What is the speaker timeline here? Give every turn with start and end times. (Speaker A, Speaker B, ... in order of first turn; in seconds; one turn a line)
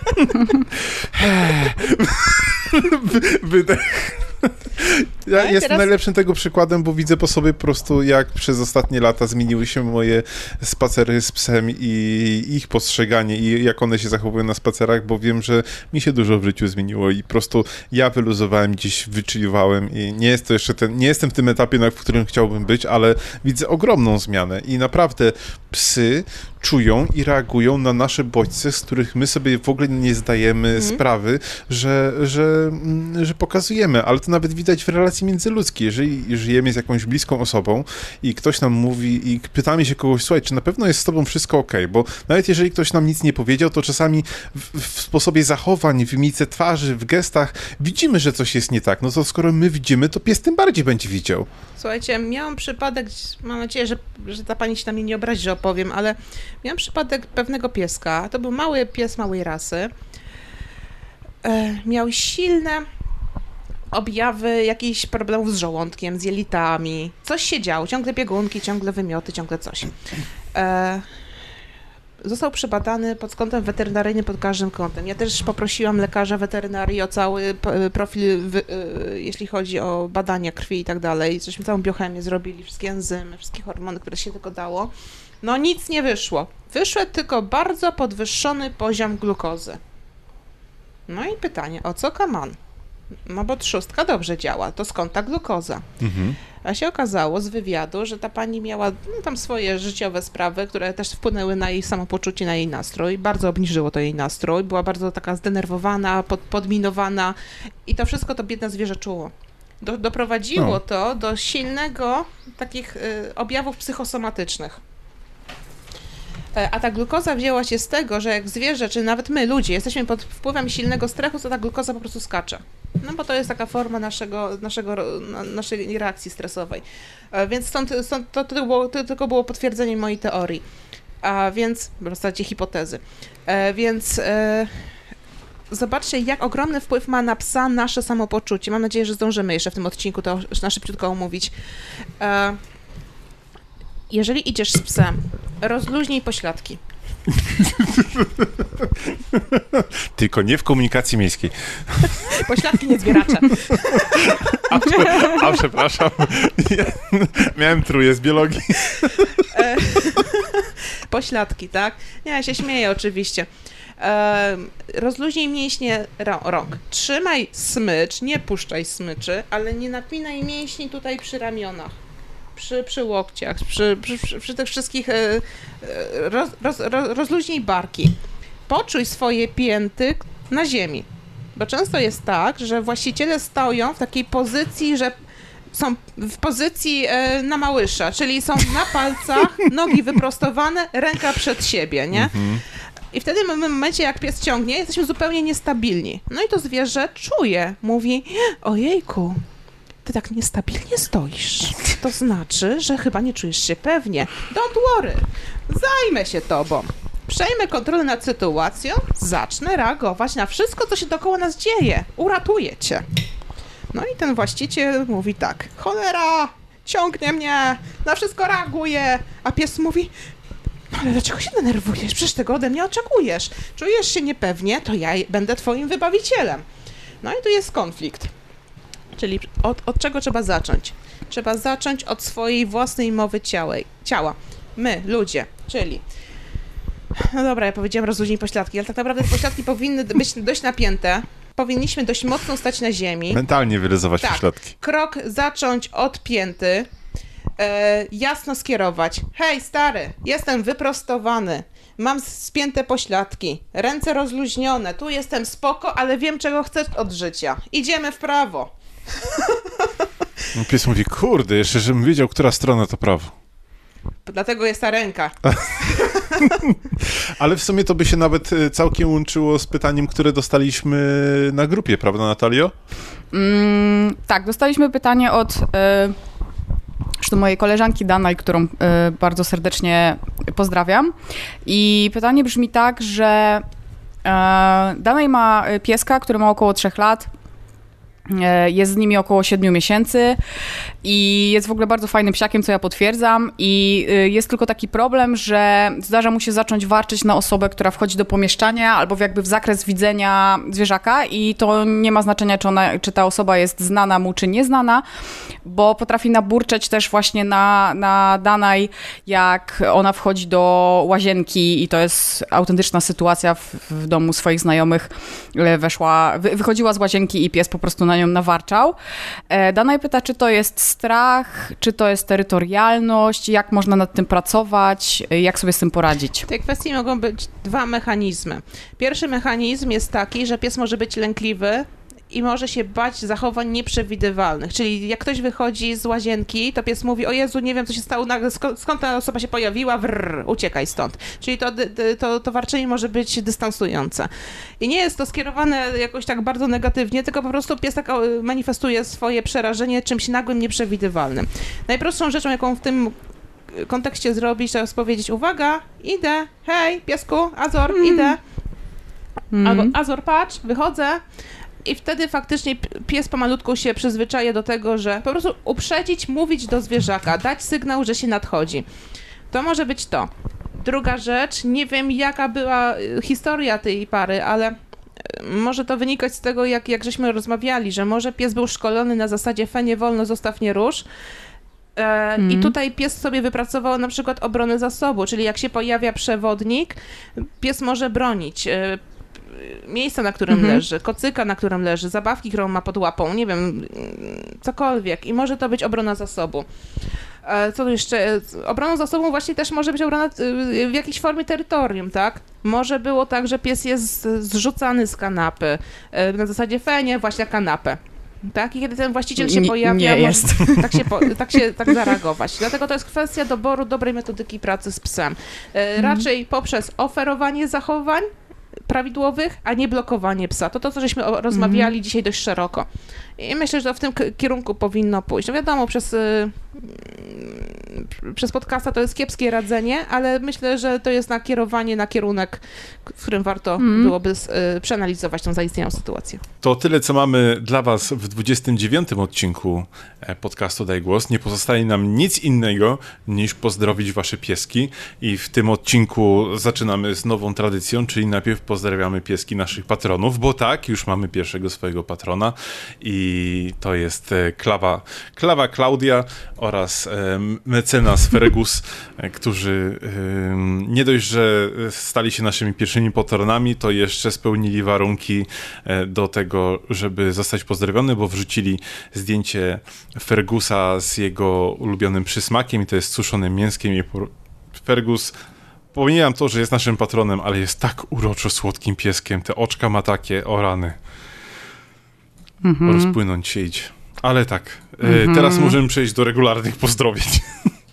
Speaker A: 0.2-51.5
Speaker B: 5.4-5.9
Speaker B: 30.8-31.0
Speaker B: 51.8-59.9
Speaker B: 61.4-62.9
Speaker B: 63.9-70.0
Speaker B: 70.5-71.0
Speaker B: 72.2-89.8
Speaker B: 91.1-92.6
Speaker B: 93.2-95.9
Speaker A: 96.0-96.4
Speaker B: 96.6-114.8
Speaker B: 116.5-130.7
Speaker B: 131.2-134.9
Speaker B: 135.7-141.5
Speaker B: 142.2-142.6
Speaker B: 144.1-146.8
Speaker A: 147.4-152.5
Speaker B: 152.3-154.6
Speaker A: 153.5-159.5
Speaker B: 159.5-172.0
Speaker B: 172.6-185.1
Speaker B: 185.7-192.3
Speaker A: 192.1-192.6
Speaker B: 193.1-199.4
Speaker B: 200.1-213.1
Speaker B: 213.9-220.1
Speaker B: 220.9-226.7
Speaker B: 227.2-228.3
Speaker B: 229.1-236.0
Speaker B: 237.1-243.4
Speaker A: 243.3-244.8
Speaker B: 244.2-246.9
Speaker B: 247.6-259.9
Speaker A: 260.5-263.3
Speaker B: 264.3-266.5
Speaker A: 265.5-272.7
Speaker C: 273.3-276.2
Speaker C: 277.2-281.1
Speaker C: 281.6-283.6
Speaker C: 284.2-287.3
Speaker C: 288.3-290.4
Speaker C: 291.0-305.0
Speaker C: 305.6-319.0
Speaker C: 319.5-326.5
Speaker B: 326.5-353.2
Speaker B: 353.7-358.4
Speaker C: 357.9-358.4
Speaker C: 359.5-359.9
Speaker B: 359.6-361.2
Speaker B: 361.8-368.9
Speaker B: 369.5-381.1
Speaker B: 382.0-396.7
Speaker C: 382.4-382.8
Speaker C: 390.5-390.8
Speaker B: 397.4-418.3
Speaker C: 409.4-411.1
Speaker C: 416.0-416.3
Speaker B: 418.9-436.4
Speaker C: 421.5-421.9
Speaker C: 433.8-434.1
Speaker A: 436.6-475.3
Speaker A: 475.9-481.0
Speaker C: 482.6-483.1
Speaker A: 482.9-487.7
Speaker C: 485.0-485.8